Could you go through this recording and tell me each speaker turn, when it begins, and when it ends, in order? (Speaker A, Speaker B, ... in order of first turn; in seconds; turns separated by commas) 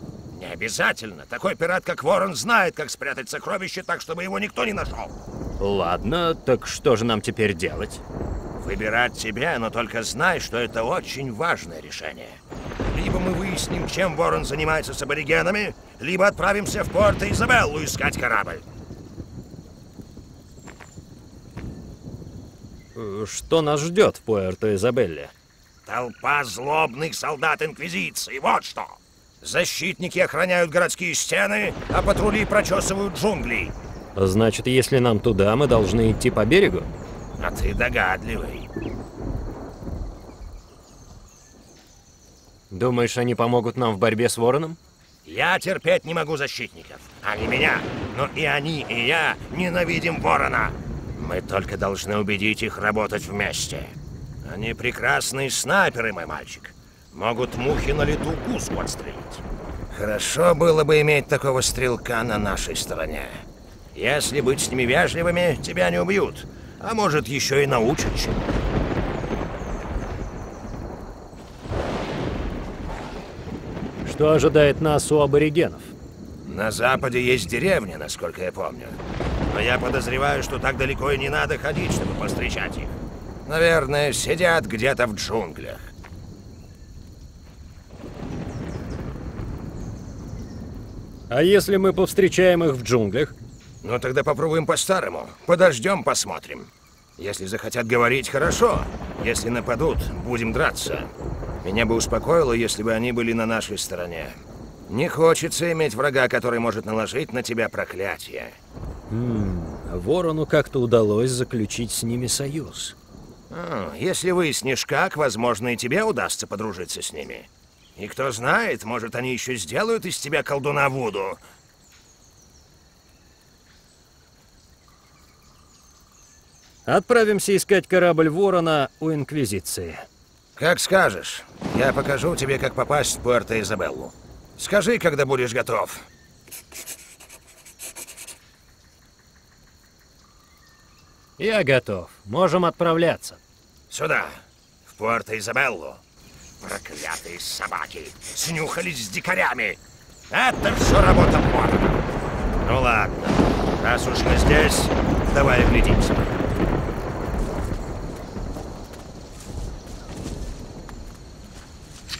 Speaker A: 0.3-5.2, Speaker B: 5.6-8.0, Speaker A: 8.6-18.6, Speaker B: 22.9-25.3, Speaker A: 25.9-33.7, Speaker B: 34.1-36.9, Speaker A: 37.4-38.7, Speaker B: 42.7-44.8, Speaker A: 45.2-68.5, Speaker B: 74.0-75.9, Speaker A: 76.4-79.0, Speaker A: 79.5-85.9, Speaker B: 91.3-93.3, Speaker A: 93.8-101.1, Speaker A: 101.6-108.6, Speaker B: 109.1-112.9, Speaker A: 113.5-121.4, Speaker B: 126.8-130.0, Speaker A: 130.6-136.1, Speaker B: 141.4-143.4, Speaker A: 143.9-146.0, Speaker A: 146.6-152.1, Speaker A: 152.6-156.3